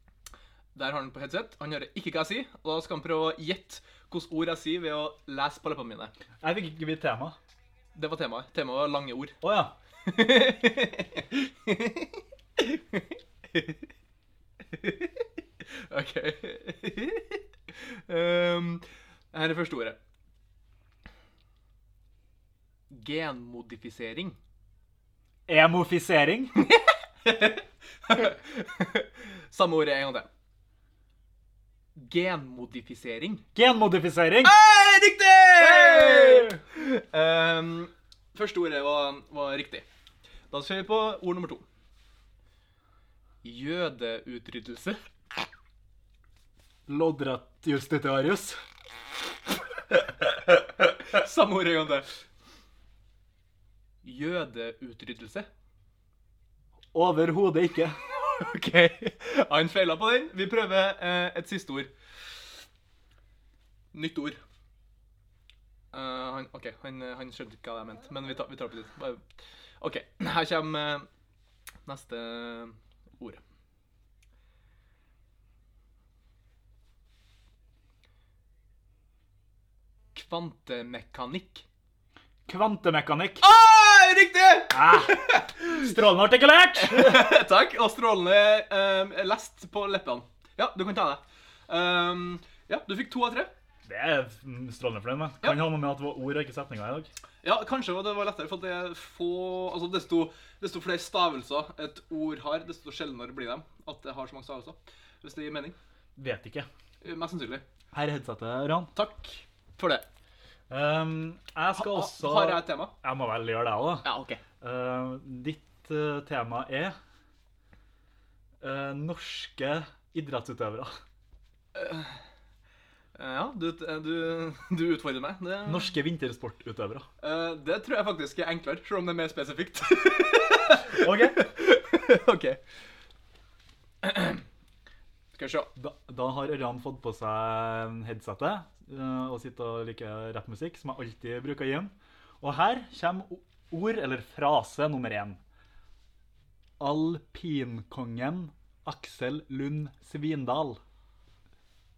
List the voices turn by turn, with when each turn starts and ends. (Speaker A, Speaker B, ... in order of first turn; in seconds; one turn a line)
Speaker A: 0.7-6.1
Speaker B: 6.4-7.4
Speaker A: 8.0-9.4
Speaker B: 9.4-9.7
Speaker A: 10.0-13.8
Speaker A: 14.7-20.0
Speaker A: 22.9-24.4
Speaker B: 25.5-26.5
Speaker A: 26.6-30.3
Speaker A: 31.9-33.4
Speaker B: 33.5-34.5
Speaker A: 34.4-39.8
Speaker B: 35.6-36.6
Speaker A: 40.5-41.6
Speaker A: 43.4-45.0
Speaker B: 46.9-48.6
Speaker A: 51.0-52.1
Speaker A: 54.0-55.5
Speaker B: 56.9-58.0
Speaker A: 58.3-61.9
Speaker A: 63.9-64.4
Speaker A: 65.9-69.2
Speaker A: 69.8-71.1
Speaker A: 71.8-73.4
Speaker A: 80.1-81.6
Speaker B: 82.5-83.4
Speaker A: 83.4-85.6
Speaker B: 84.7-87.3
Speaker A: 86.8-93.5
Speaker B: 93.8-97.1
Speaker A: 97.4-105.8
Speaker B: 106.2-106.7
Speaker A: 107.0-107.6
Speaker B: 107.9-108.9
Speaker A: 108.9-110.0
Speaker B: 110.7-114.1
Speaker A: 111.8-112.9
Speaker A: 114.0-114.4
Speaker B: 114.6-117.0
Speaker B: 118.6-121.0
Speaker A: 121.7-122.2
Speaker A: 123.2-125.9
Speaker B: 125.7-127.1
Speaker A: 127.2-132.6
Speaker B: 130.9-131.4
Speaker A: 134.0-134.4
Speaker A: 135.3-135.7
Speaker B: 135.8-145.4
Speaker B: 146.8-150.8